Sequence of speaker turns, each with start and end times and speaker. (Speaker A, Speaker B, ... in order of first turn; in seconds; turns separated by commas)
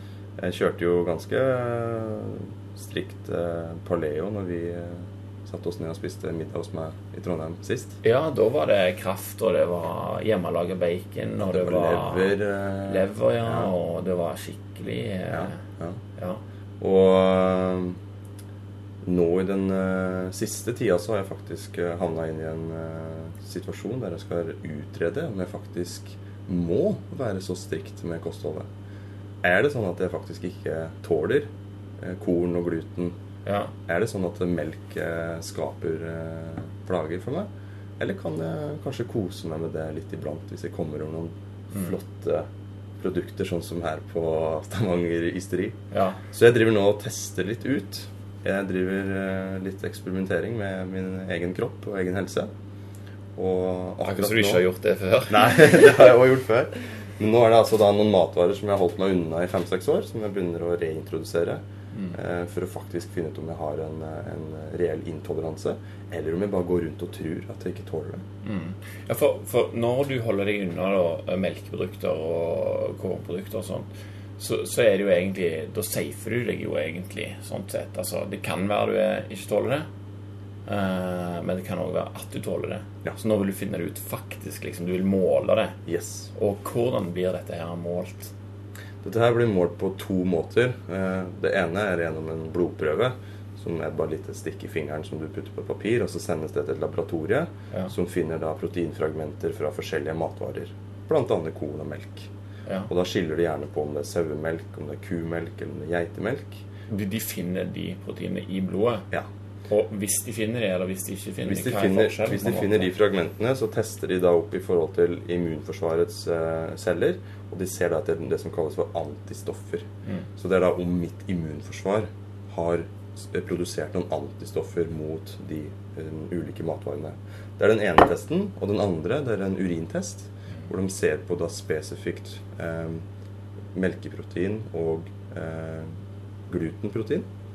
Speaker A: 0.4-8.0, Speaker B: 8.0-15.6, Speaker A: 11.4-13.7, Speaker A: 15.3-16.0, Speaker B: 16.2-16.4, Speaker A: 16.8-18.0, Speaker A: 19.0-28.7, Speaker A: 29.4-33.2, Speaker B: 33.5-33.7, Speaker A: 33.9-42.5, Speaker A: 43.0-52.5, Speaker B: 45.9-46.2, Speaker A: 53.4-54.6, Speaker B: 54.0-55.9, Speaker A: 55.3-68.2, Speaker B: 61.9-62.2, Speaker B: 68.4-73.9, Speaker B: 74.4-79.9, Speaker B: 80.7-85.8, Speaker A: 85.9-86.3, Speaker B: 86.3-88.3, Speaker A: 89.0-102.3, Speaker A: 102.9-106.6, Speaker B: 106.9-109.1, Speaker B: 109.7-112.9, Speaker A: 111.5-133.1, Speaker A: 133.7-135.9, Speaker A: 136.5-137.2